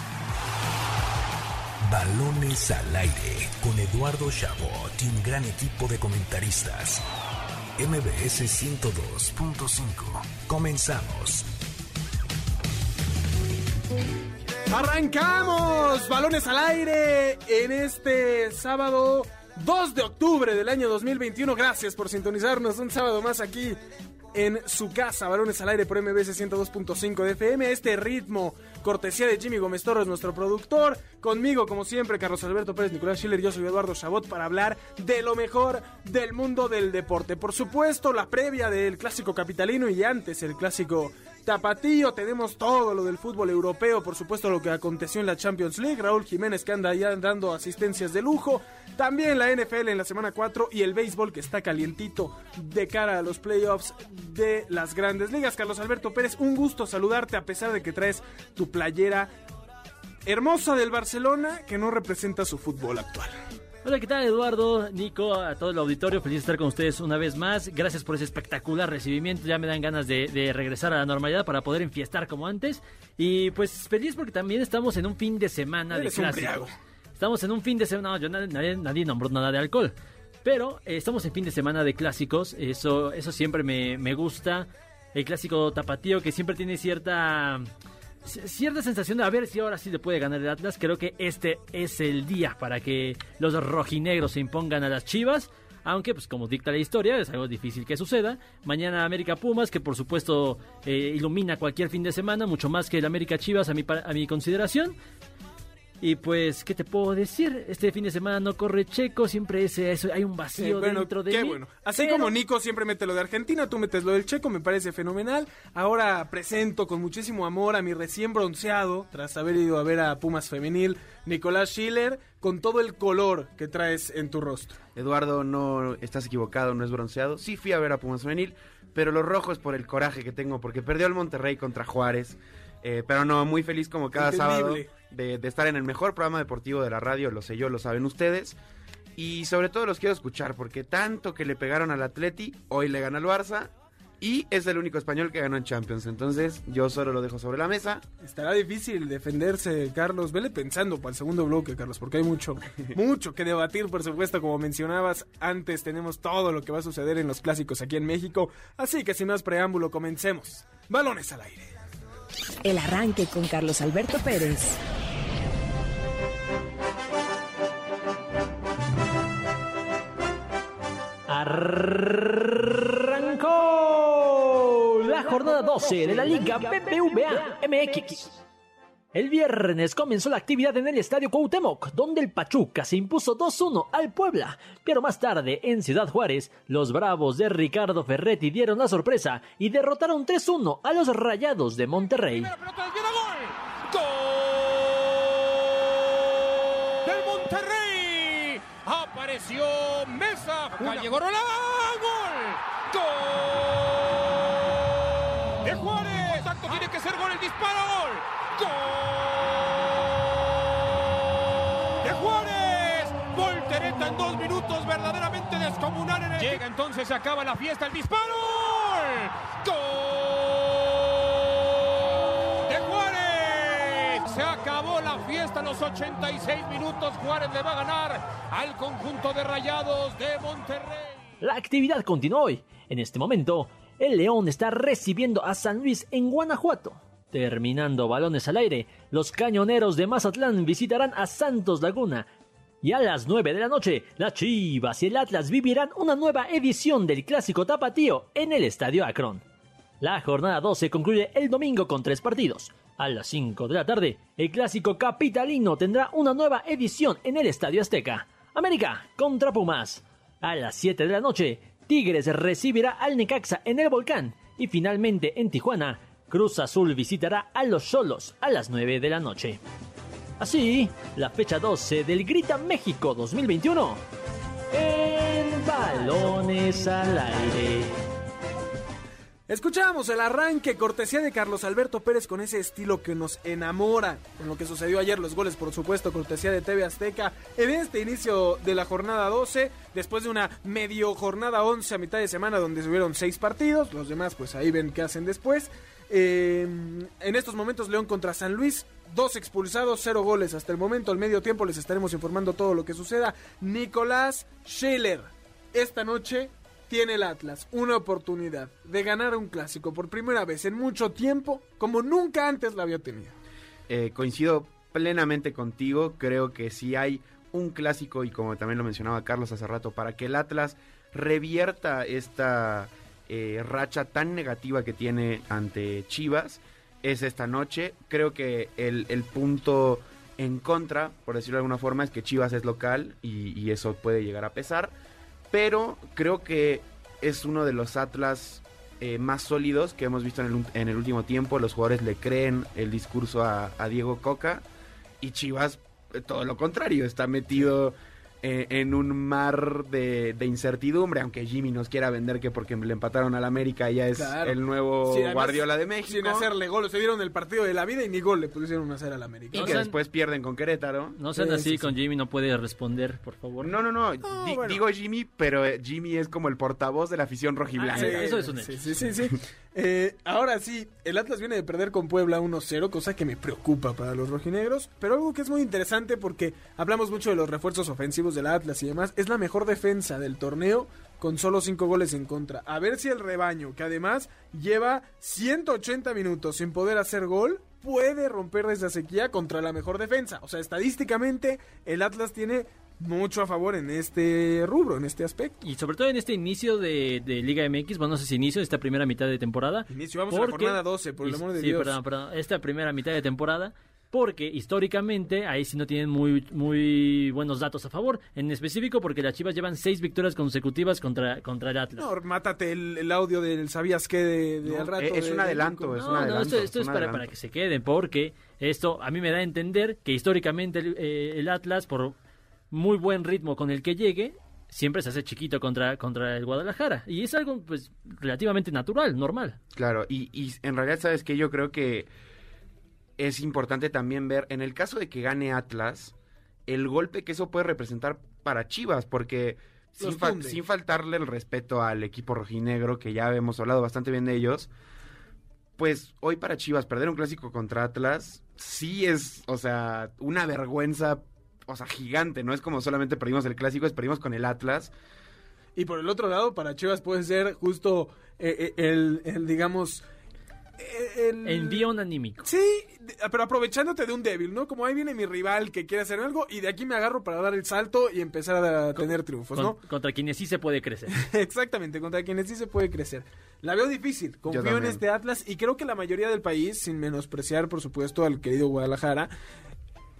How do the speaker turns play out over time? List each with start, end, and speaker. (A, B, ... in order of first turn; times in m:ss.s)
0:01.8-0:07.0 A
0:07.8-0:11.5 A
0:14.7-0:23.8 B
0:24.3-0:59.3 B
1:00.3-1:03.4 B
1:03.8-1:27.7 C
1:15.9-1:16.7 B
1:28.2-1:44.9 C
1:46.0-1:52.3 C
1:50.6-2:04.8 B
2:05.0-2:18.6 D
2:14.1-2:14.9 B
2:19.2-2:28.0 D
2:28.2-2:41.7 B
2:42.6-2:44.8 E
2:51.3-2:58.4 C
2:56.0-2:56.3 E
2:59.1-3:12.5 C
3:12.3-3:31.2 F
3:32.0-3:51.2 F
3:51.4-4:02.3 C
4:02.8-4:09.4 C
4:10.0-4:29.6 C
4:30.4-4:34.0 C
4:34.7-4:38.0 C
4:39.5-5:13.4 B
5:13.9-5:34.9 D
5:35.5-5:44.6 D
5:45.2-5:56.5 D
5:54.2-5:59.9 B
5:59.5-6:00.0 C
5:59.5-6:01.2 D
6:01.2-6:03.7 C
6:01.4-6:01.9 B
6:03.6-6:08.2 D
6:04.2-6:04.8 B
6:07.7-6:08.9 C
6:07.9-6:35.6 B
6:35.6-6:52.1 C
6:39.9-6:42.0 B
6:52.0-6:56.5 B
6:54.6-6:57.3 D
6:56.0-7:02.2 C
7:02.7-7:09.6 C
7:09.8-7:12.1 D
7:13.2-7:16.1 D
7:16.7-7:24.7 D
7:20.0-7:20.6 B
7:25.8-7:34.9 D
7:35.8-7:40.0 B
7:40.8-7:41.9 B
7:41.4-7:42.5 C
7:42.4-7:49.8 B
7:49.6-7:51.2 C
7:51.1-7:59.3 B
7:54.5-7:55.0 D